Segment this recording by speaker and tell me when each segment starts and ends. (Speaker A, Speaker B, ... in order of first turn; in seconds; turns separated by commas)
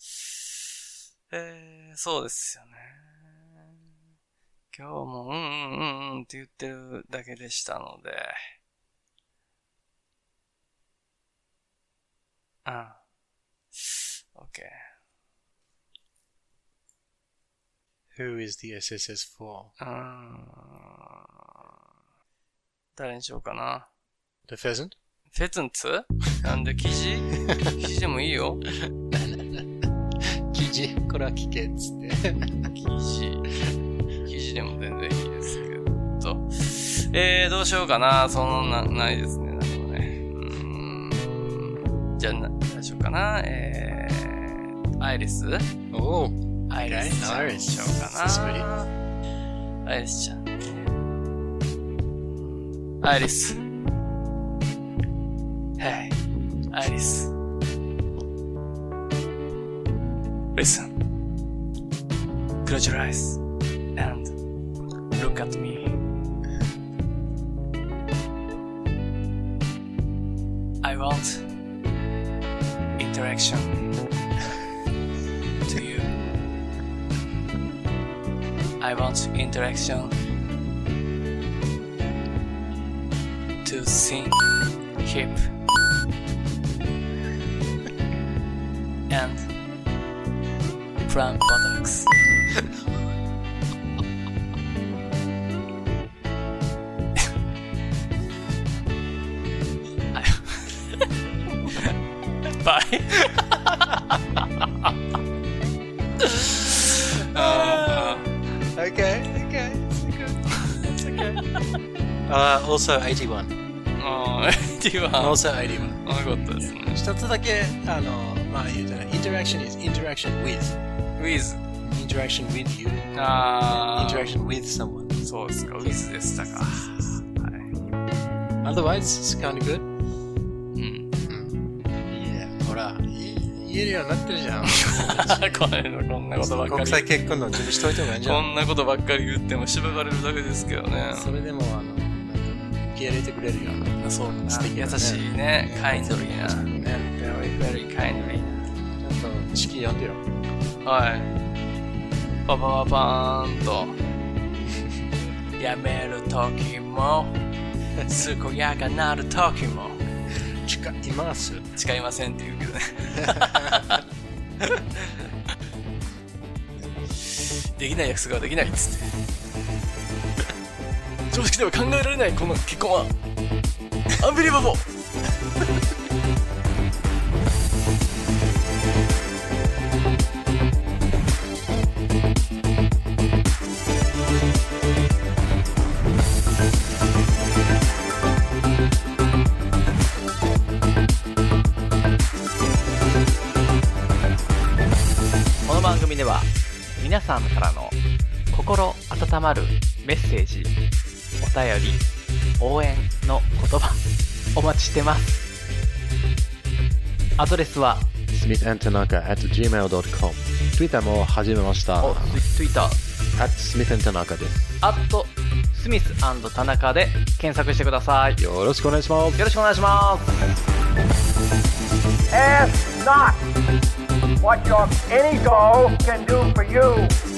Speaker A: 1.3-3.7, Speaker A: 4.7-8.4, Speaker A: 12.6-13.0, Speaker A: 13.8-14.8, Speaker B: 18.1-19.7, Speaker A: 19.8-21.7, Speaker A: 23.0-23.9, Speaker B: 24.5-25.0, Speaker A: 25.3-28.6, Speaker B: 28.8-32.7, Speaker A: 32.7-33.5, Speaker A: 34.2-45.7, Speaker B: 45.9-48.7, Speaker A: 46.7-48.9, Speaker A: 49.9-50.6, Speaker A: 52.5-53.6, Speaker A: 55.8-57.3, Speaker A: 60.5-60.9, Speaker A: 62.6-63.4, Speaker A: 64.0-64.4, Speaker A: 65.1-66.0, Speaker A: 70.8-71.5, Speaker A: 73.0-74.0, Speaker A: 75.7-76.1, Speaker A: 78.8-80.1, Speaker A: 83.6-85.5, Speaker A: 89.1-89.5, Speaker A: 91.0-92.1, Speaker A: 100.1-101.1, Speaker A: 101.7-103.5, Speaker B: 103.3-104.2, Speaker A: 106.2-108.3, Speaker B: 107.1-111.5, Speaker A: 110.6-111.8, Speaker B: 112.3-113.6, Speaker A: 114.0-117.0, Speaker B: 115.2-120.8, Speaker A: 121.2-121.6, Speaker B: 121.8-125.2, Speaker A: 123.1-124.4, Speaker A: 125.2-127.8, Speaker B: 125.8-127.2, Speaker B: 128.6-129.9, Speaker A: 130.7-131.1, Speaker B: 131.2-135.7, Speaker A: 134.6-137.1, Speaker B: 136.4-138.5, Speaker A: 138.1-141.3, Speaker B: 141.1-147.1, Speaker A: 144.0-148.6, Speaker B: 148.9-150.2, Speaker A: 150.8-151.3, Speaker A: 152.5-154.0, Speaker A: 155.6-157.4, Speaker A: 158.0-160.0, Speaker B: 160.6-161.7, Speaker A: 161.8-164.0, Speaker B: 163.2-164.0, Speaker A: 167.2-169.1, Speaker A: 171.3-173.1, Speaker A: 174.2-174.9, Speaker C: 195.7-198.0, Speaker C: 198.5-200.8, Speaker C: 201.4-202.1, Speaker C: 202.6-204.1, Speaker C: 204.6-205.5, Speaker C: 207.4-208.2, Speaker D: 208.3-212.4, Speaker C: 212.0-213.0, Speaker D: 213.4-214.6, Speaker C: 214.8-218.4, Speaker D: 218.4-219.4, Speaker C: 219.4-220.6, Speaker E: 222.3-223.4, Speaker E: 224.4-227.2